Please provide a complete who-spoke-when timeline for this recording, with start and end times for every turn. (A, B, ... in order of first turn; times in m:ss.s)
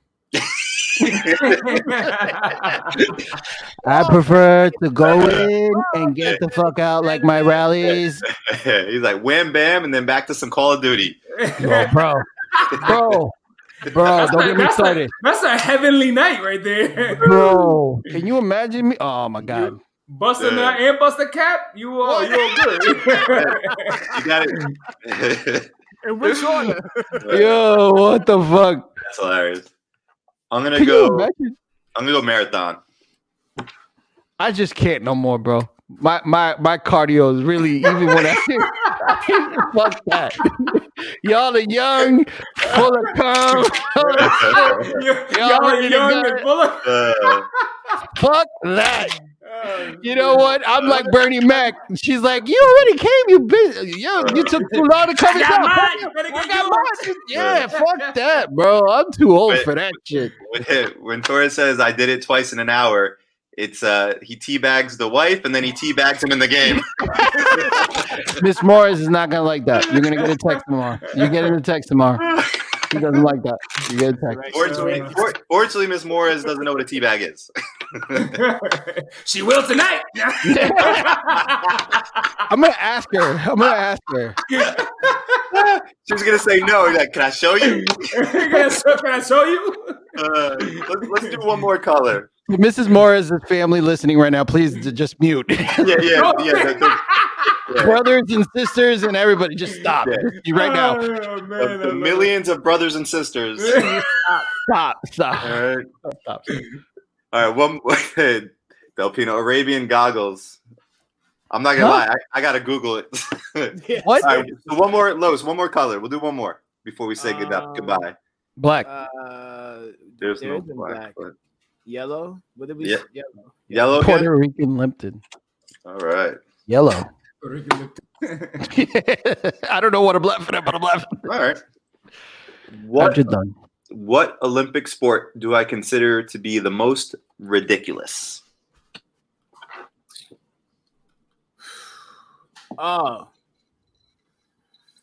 0:00.3-0:01.7 A
0:01.0-0:03.0 B
0:03.8-0:08.2 C
0:03.8-0:04.4 D
0:05.0-0:06.2 D
0:05.0-0:05.5 A
0:07.0-0:07.6 D
0:07.9-0:11.2 A
0:11.3-0:11.9 B
0:11.6-0:12.3 C
0:12.5-0:12.9 B
0:12.7-0:13.2 A
0:12.8-0:13.4 C
0:13.9-0:15.1 C
0:14.0-0:18.1 B
0:17.2-0:19.8 C
0:19.5-0:24.1 B
0:20.4-0:20.8 A
0:22.1-0:24.2 D
0:23.3-0:25.7 A
0:26.0-0:27.2 D
0:27.2-0:27.6 A
0:27.3-0:28.9 C
0:29.0-0:29.7 A
0:30.5-0:31.3 A
0:30.7-0:31.6 C
0:31.9-0:32.8 A
0:34.4-0:46.5 C
0:38.8-0:39.1 B
0:42.6-0:42.9 B
0:44.2-0:45.0 A
0:44.2-0:48.0 B
0:46.8-0:47.5 A
0:48.2-0:49.2 C
0:49.4-0:50.4 B
0:50.0-1:00.3 C
0:50.2-0:51.1 D
0:54.2-0:54.9 A
0:55.2-0:58.1 B
0:57.3-0:57.7 A
0:59.5-1:08.4 A
1:07.0-1:07.7 C
1:08.3-1:12.2 C
1:10.0-1:10.5 B
1:12.3-1:12.7 A
1:12.9-1:14.4 C
1:14.3-1:15.2 D
1:14.5-1:18.4 A
1:14.6-1:15.2 B
1:18.1-1:22.3 B
1:20.4-1:21.1 C
1:20.9-1:21.7 A
1:22.5-1:24.4 C
1:24.5-1:25.4 B
1:25.5-1:28.6 A
1:27.6-1:30.0 B
1:30.1-1:32.3 A
1:30.6-1:31.4 B
1:32.5-1:36.2 C
1:35.8-1:38.0 A
1:36.1-1:37.6 B
1:37.8-1:41.0 C
1:40.0-1:40.3 A
1:40.4-1:42.3 B
1:41.6-1:43.9 A
1:43.6-1:44.2 B
1:44.1-1:46.4 C
1:45.4-1:45.8 A
1:47.3-1:50.6 A
1:51.5-1:58.2 A
1:51.8-1:52.0 C
1:53.7-1:54.7 D
1:54.0-1:54.4 C
1:57.2-1:58.0 D
1:58.6-1:58.9 C
1:58.8-2:01.2 D
2:00.2-2:01.3 A
2:01.8-2:04.0 D
2:03.7-2:04.3 A
2:04.0-2:05.2 C
2:05.8-2:06.4 A
2:06.7-2:07.1 C
2:07.4-2:08.7 B
2:08.6-2:11.3 C
2:11.2-2:11.6 A
2:12.7-2:13.3 A
2:13.0-2:13.5 C
2:13.9-2:18.4 A
2:22.8-2:23.3 D